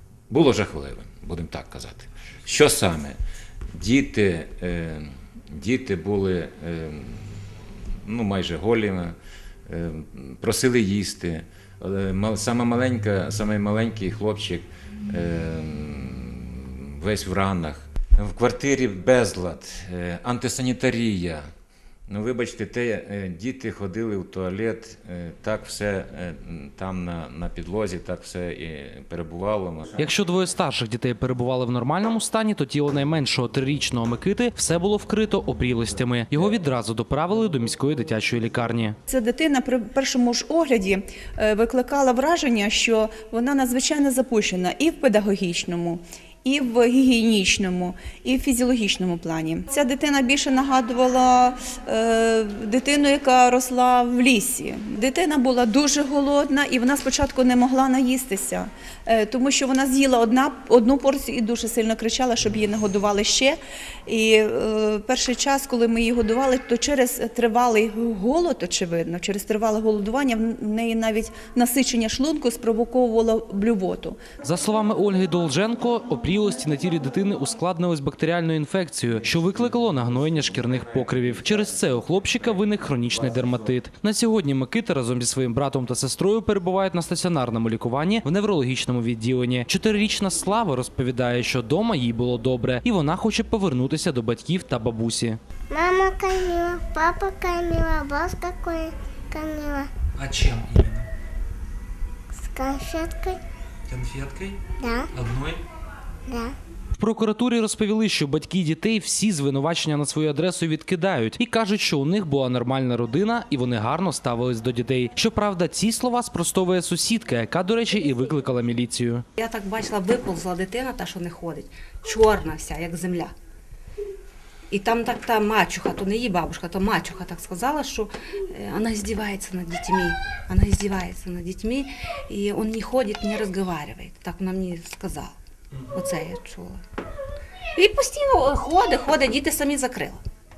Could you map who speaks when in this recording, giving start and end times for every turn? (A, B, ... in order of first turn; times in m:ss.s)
0:00.3-0:03.2 A
0:03.8-0:07.4 A
0:08.0-0:09.2 A
0:09.7-0:21.4 A
0:22.1-0:30.0 A
0:30.0-0:39.0 B
0:39.1-1:14.2 C
1:14.4-1:35.4 B
1:35.7-1:39.9 D
1:40.2-1:41.0 B
1:42.3-1:43.4 D
1:43.9-1:44.6 B
1:44.8-1:45.1 D
1:45.2-1:45.6 B
1:46.3-1:46.6 D
1:47.0-1:59.2 B
1:59.4-2:03.3 E
2:04.7-2:16.8 E
2:17.8-2:20.2 E